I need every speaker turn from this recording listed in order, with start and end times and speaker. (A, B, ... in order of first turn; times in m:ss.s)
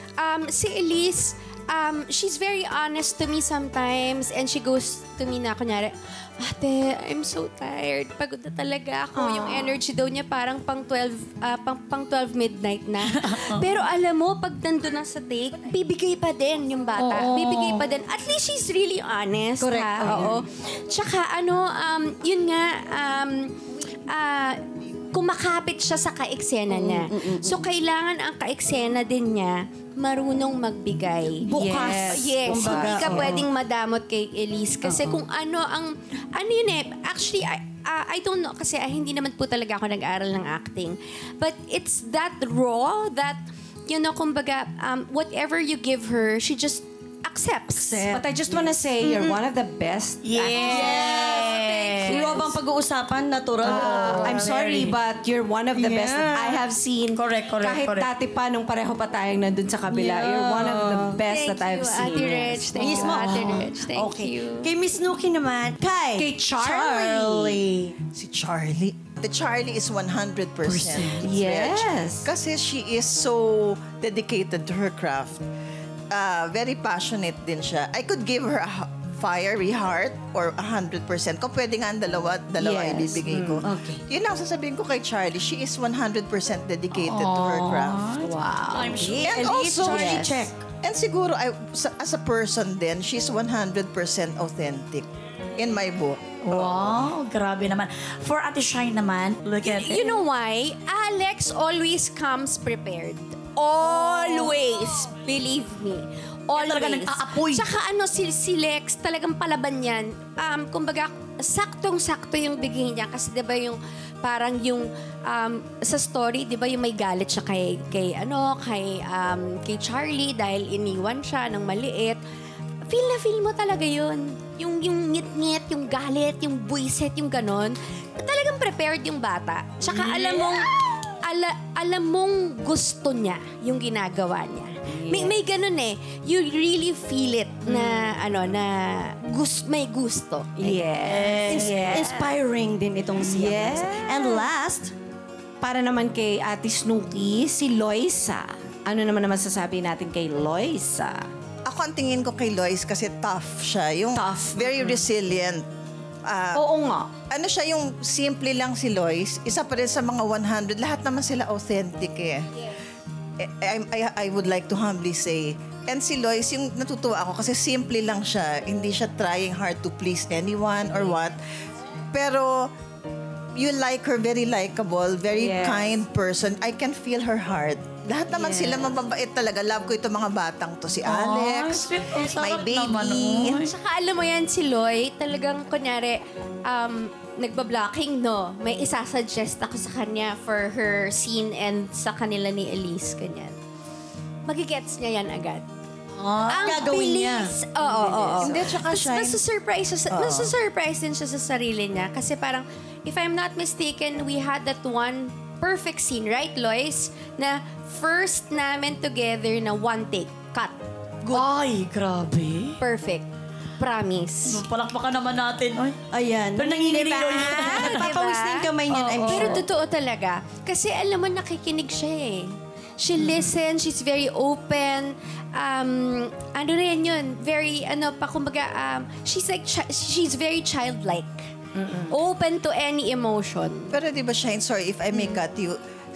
0:00.2-0:23.5 A
0:09.2-0:09.8 B
0:13.1-0:13.6 C
0:17.0-0:17.8 C
0:19.6-0:20.4 D
0:24.1-0:48.0 A
0:26.7-0:27.6 D
0:31.5-0:33.4 D
0:31.6-0:33.3 B
0:47.8-0:48.2 D
0:48.0-0:51.4 B
0:50.2-0:52.4 C
0:50.7-0:51.5 D
0:51.5-0:52.4 A
0:52.0-0:54.9 D
0:53.6-1:03.2 B
0:53.6-0:54.6 C
0:55.8-0:56.6 D
0:57.1-0:58.1 C
0:59.9-1:01.1 D
1:01.2-1:04.7 A
1:02.8-1:07.9 D
1:03.3-1:03.6 C
1:06.2-1:07.6 B
1:08.1-1:15.4 E
1:10.6-1:11.3 C
1:11.2-1:12.3 B
1:16.1-1:28.2 E
1:22.6-1:23.7 B
1:26.9-1:29.4 C
1:28.2-1:30.5 B
1:29.2-1:30.5 D
1:29.2-1:37.0 E
1:36.4-1:40.2 C
1:39.6-2:02.2 A
1:46.6-1:47.7 C
2:02.9-2:10.7 A
2:09.9-2:10.4 B
2:11.2-2:21.2 A
2:15.0-2:15.4 B
2:20.6-2:22.2 B
2:21.0-2:22.0 C
2:21.5-2:24.9 D
2:23.2-2:24.5 B
2:25.6-2:31.2 B
2:31.7-2:35.6 E
2:34.2-2:35.1 B
2:36.2-2:36.6 E
2:36.6-2:37.1 B
2:37.3-2:42.5 E
2:43.4-2:51.4 E
2:52.1-2:52.7 E
2:53.6-3:03.6 E
2:55.3-2:55.9 B
2:58.3-2:59.0 B
3:01.0-3:03.7 C
3:03.6-3:13.6 A
3:14.5-3:15.6 A
3:16.2-3:16.7 C
3:16.5-3:31.4 A
3:16.6-3:17.5 D
3:18.4-3:19.4 E
3:20.1-3:20.5 E
3:31.3-3:32.8 C
3:32.8-3:33.3 A
3:33.8-3:34.6 A
3:34.5-3:36.0 C
3:36.1-3:39.7 D
3:36.6-3:38.1 C
3:37.2-3:51.5 A
3:51.8-3:52.1 B
3:52.1-3:54.0 A
3:53.9-3:55.8 E